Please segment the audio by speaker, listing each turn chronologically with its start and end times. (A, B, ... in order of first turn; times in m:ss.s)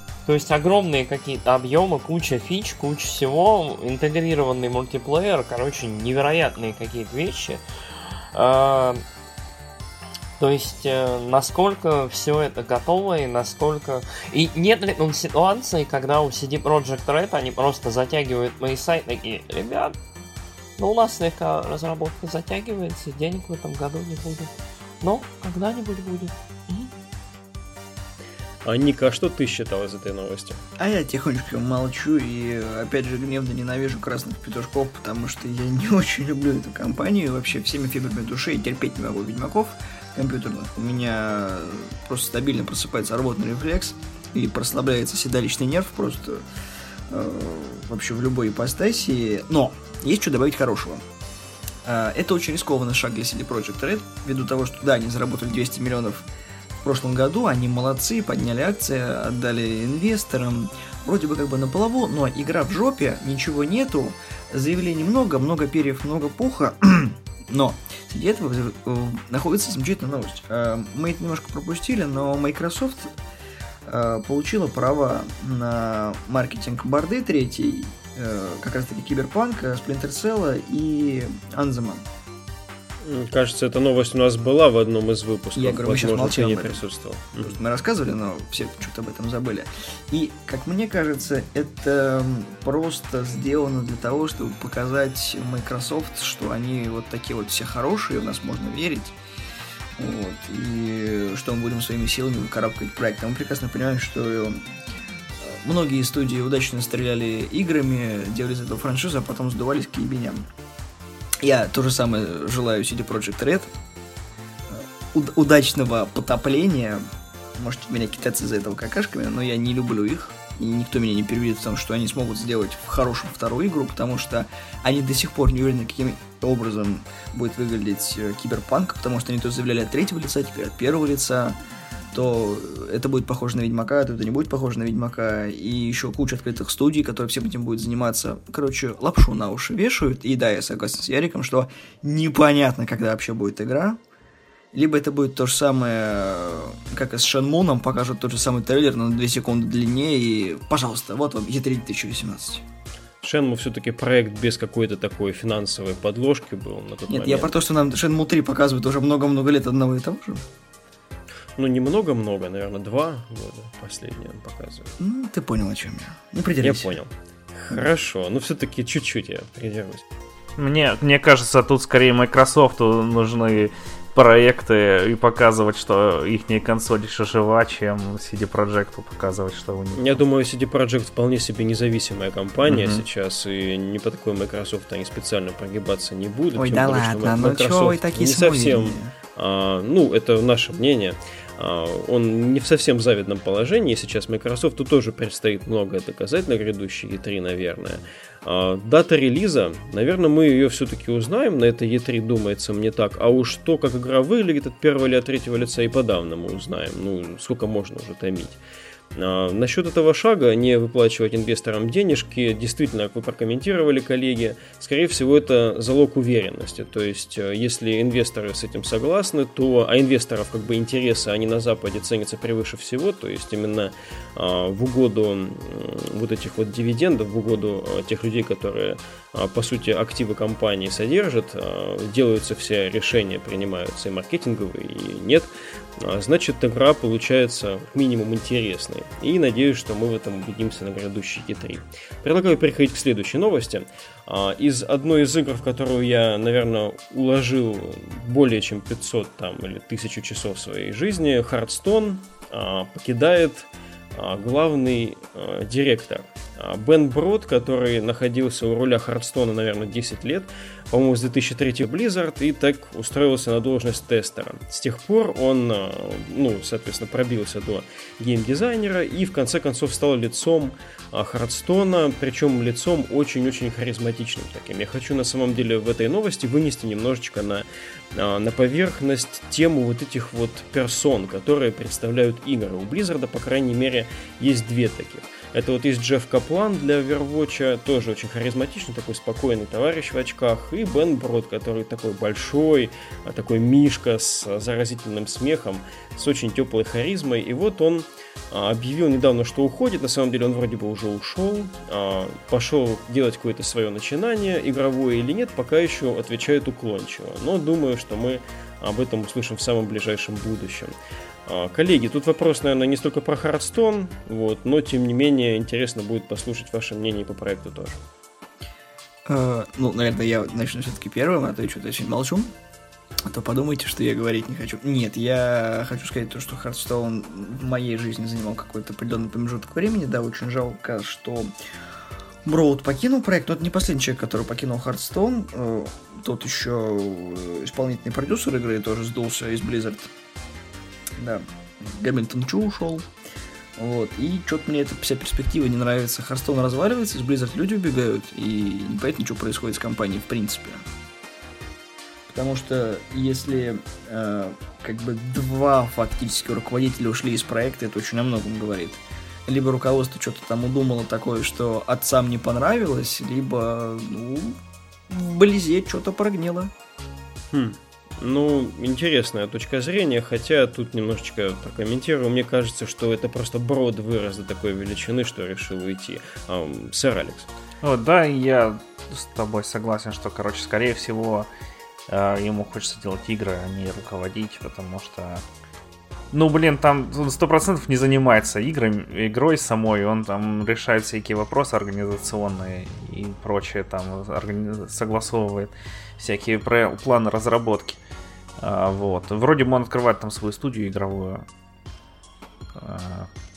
0:00.2-0:07.6 A
0:08.3-0:09.0 A
0:10.4-0:19.9 A
0:20.8-0:24.5 A
0:25.0-0:26.9 A
0:28.6-0:30.6 B
0:30.8-0:46.4 C
0:47.1-0:51.0 C
0:51.8-0:56.3 C
0:56.8-1:13.1 C
1:13.8-1:22.0 C
1:23.0-1:27.6 B
1:25.5-1:26.8 C
1:27.4-1:39.2 C
1:40.0-1:44.6 C
1:45.4-1:50.4 C
1:51.4-1:53.7 C
1:54.7-1:57.0 C
1:57.5-2:11.6 C
2:12.1-2:24.0 C
2:24.7-2:32.6 C
2:33.2-2:37.5 B
2:37.1-2:40.4 C
2:41.6-2:44.9 B
2:45.0-2:46.9 C
2:46.6-2:50.0 B
2:50.6-3:00.2 D
2:59.9-3:28.6 B
3:02.7-3:03.0 D
3:06.5-3:09.1 C
3:29.1-5:10.9 B
5:11.4-5:18.0 B
5:19.2-5:22.5 C
5:23.3-5:31.5 C
5:32.4-5:40.1 C
5:41.2-5:43.1 C
5:43.8-5:50.8 C
5:52.3-6:04.6 C
6:05.1-6:06.7 C
6:07.5-6:17.5 B
6:17.8-6:21.5 D
6:22.1-6:25.4 D
6:26.3-6:38.0 D
6:38.6-6:41.4 D
6:42.8-6:43.3 D